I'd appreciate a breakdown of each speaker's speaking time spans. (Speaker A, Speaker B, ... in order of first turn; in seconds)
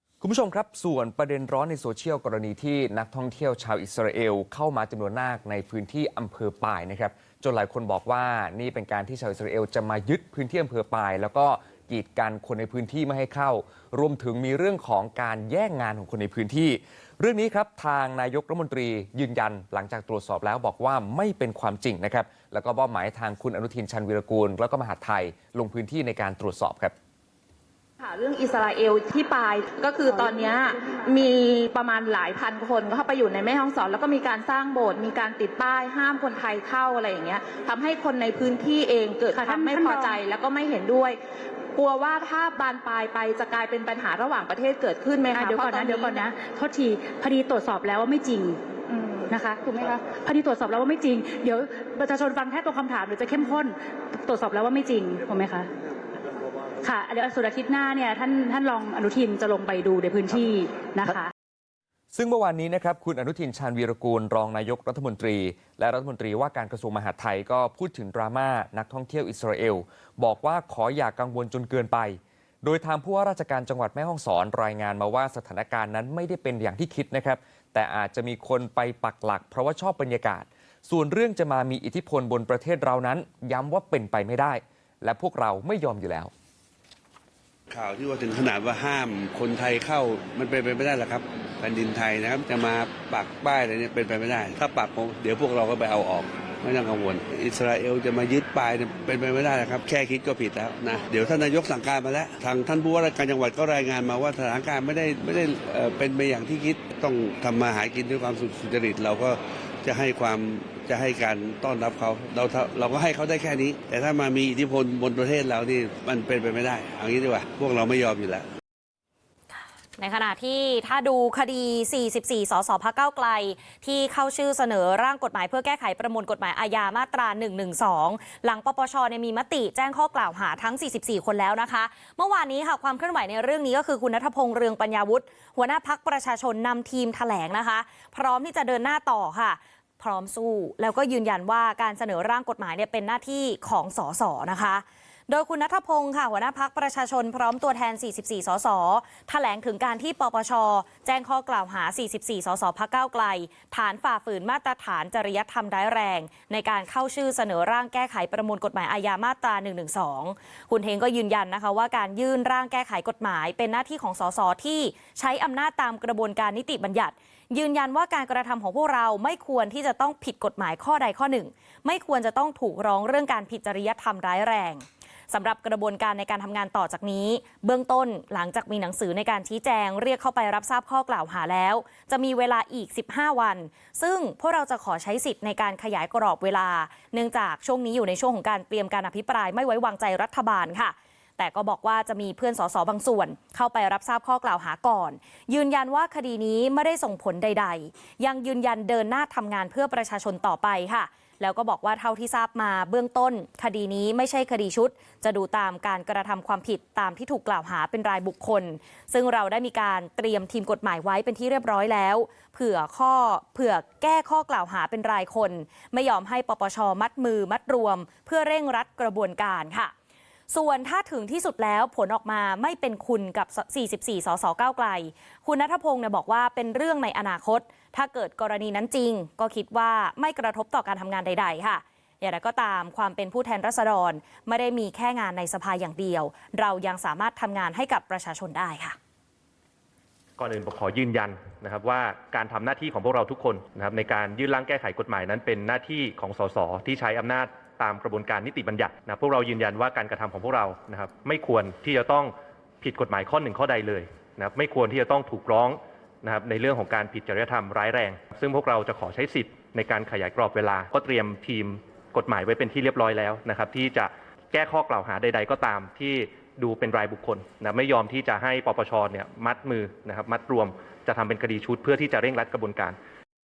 Speaker A: 0.2-26.9, 62.1-86.3
Speaker B: 28.0-41.2, 41.8-46.3, 48.9-49.2, 53.3-53.6
Speaker C: 39.4-40.1, 45.4-48.6, 49.3-55.7, 56.8-61.3
Speaker D: 87.7-118.5
Speaker E: 119.5-219.9, 220.5-239.0
Speaker F: 240.4-273.0